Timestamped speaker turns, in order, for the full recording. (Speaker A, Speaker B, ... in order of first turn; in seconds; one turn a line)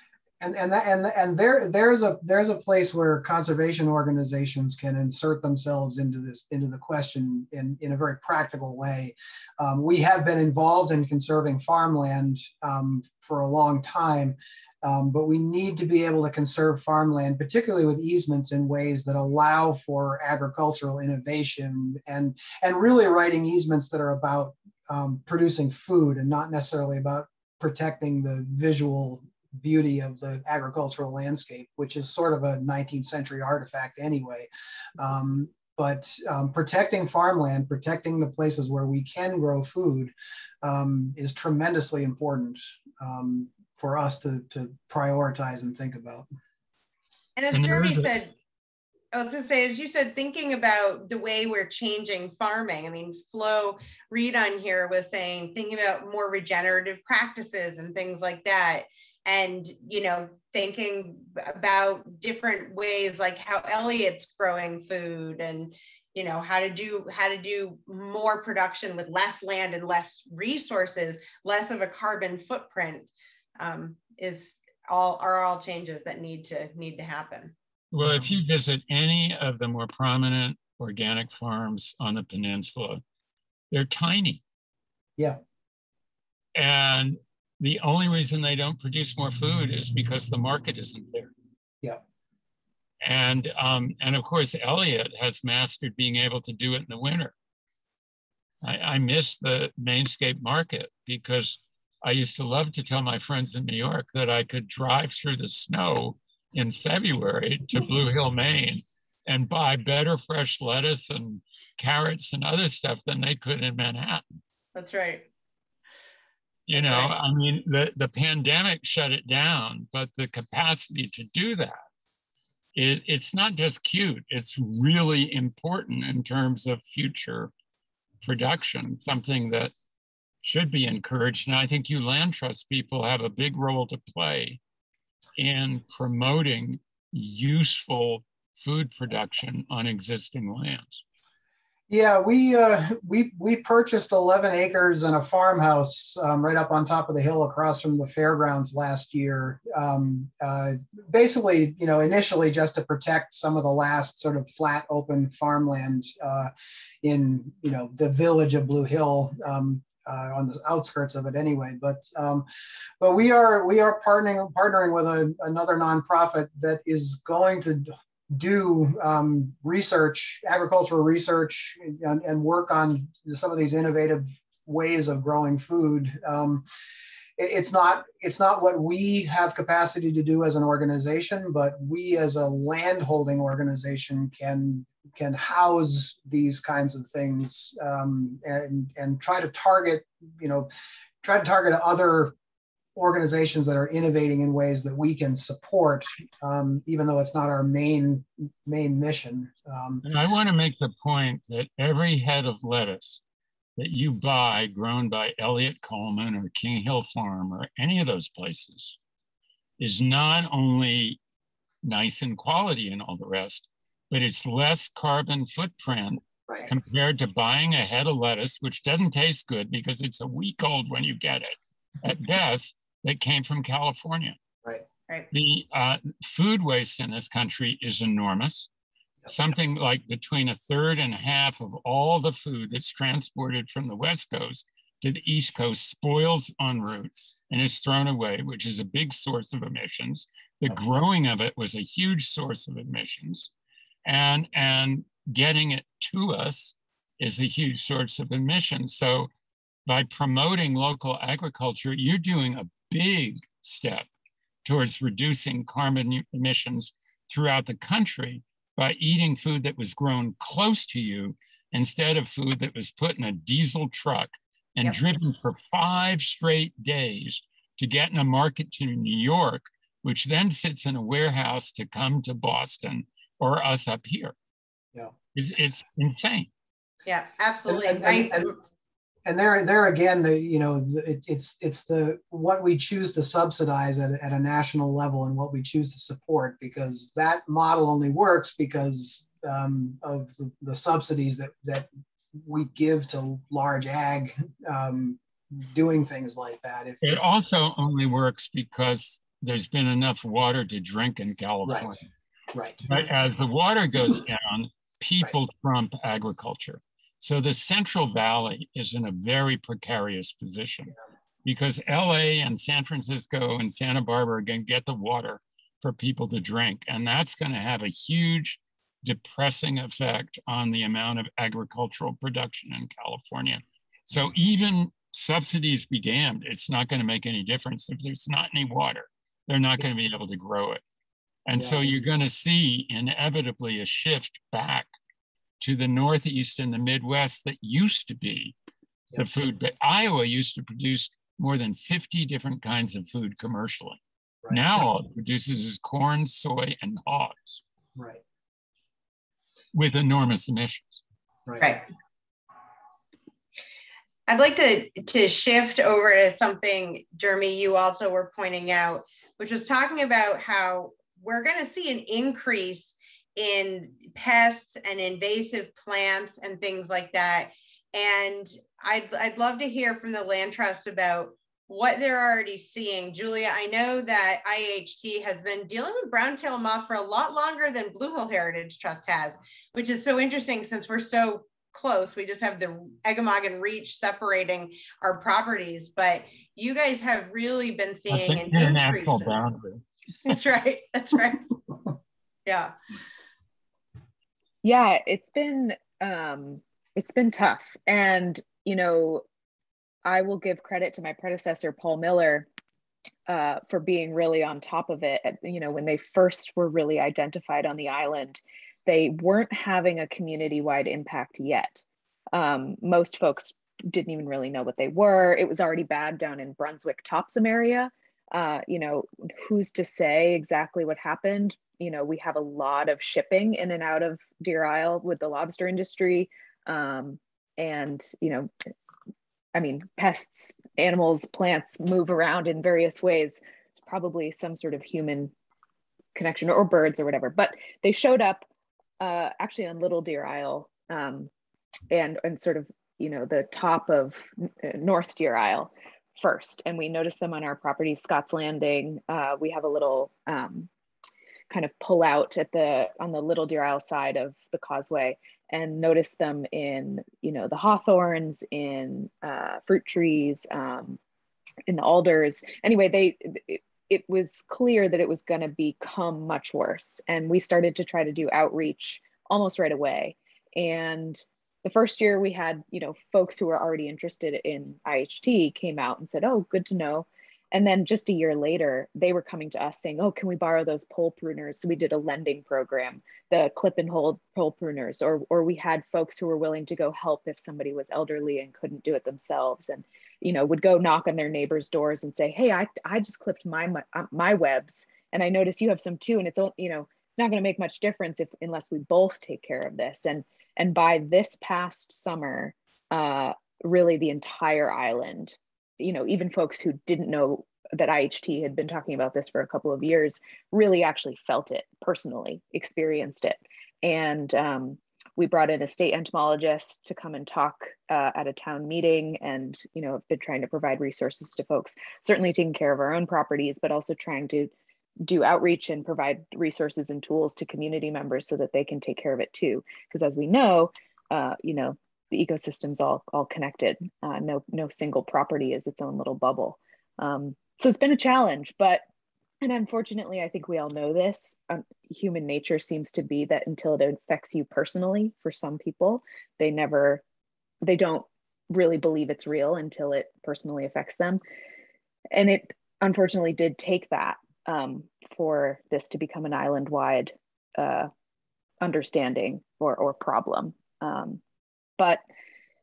Speaker A: 0.4-34.5
Speaker A: 35.0-46.3
Speaker B: 47.4-48.3
Speaker C: 47.5-48.1
Speaker B: 49.1-77.5
Speaker C: 77.9-83.0
Speaker C: 83.7-84.4
Speaker C: 86.6-91.3
Speaker C: 93.0-97.3
Speaker C: 98.6-114.4
Speaker B: 114.8-115.3
Speaker C: 116.7-121.8
Speaker B: 116.7-117.1
Speaker C: 122.8-127.5
Speaker C: 128.2-129.7
Speaker C: 130.4-134.6
Speaker C: 135.4-141.0
Speaker A: 141.9-156.5
Speaker A: 157.0-162.5
Speaker A: 163.0-176.6
Speaker A: 177.4-190.7
Speaker A: 191.2-192.3
Speaker A: 193.0-200.0
Speaker C: 200.0-203.2
Speaker C: 203.8-209.0
Speaker C: 209.8-211.2
Speaker C: 211.8-224.4
Speaker C: 225.3-228.7
Speaker C: 229.3-243.5
Speaker C: 244.1-249.3
Speaker C: 249.9-254.1
Speaker C: 254.7-274.4
Speaker C: 275.3-276.5
Speaker B: 277.1-278.5
Speaker A: 277.7-278.6
Speaker A: 279.3-297.3
Speaker C: 297.0-302.0
Speaker A: 302.5-302.9
Speaker C: 302.9-310.9
Speaker C: 311.4-330.8
Speaker C: 331.5-334.9
Speaker A: 331.6-331.9
Speaker C: 335.6-338.6
Speaker C: 339.2-347.6
Speaker A: 348.0-348.2
Speaker C: 349.7-351.0
Speaker A: 351.5-351.8
Speaker B: 354.3-389.5
Speaker C: 388.1-390.4
Speaker B: 390.3-391.6
Speaker B: 392.5-392.7
Speaker D: 394.6-399.2
Speaker D: 400.1-402.5
Speaker D: 403.3-428.5
Speaker D: 429.6-435.3
Speaker D: 436.1-438.5
Speaker D: 439.0-441.3
Speaker D: 441.9-450.7
Speaker D: 451.5-461.0
Speaker D: 461.7-524.5
Speaker D: 525.0-538.8
Speaker D: 539.4-547.0
Speaker D: 547.6-551.2
Speaker D: 552.1-557.9
Speaker D: 558.6-561.2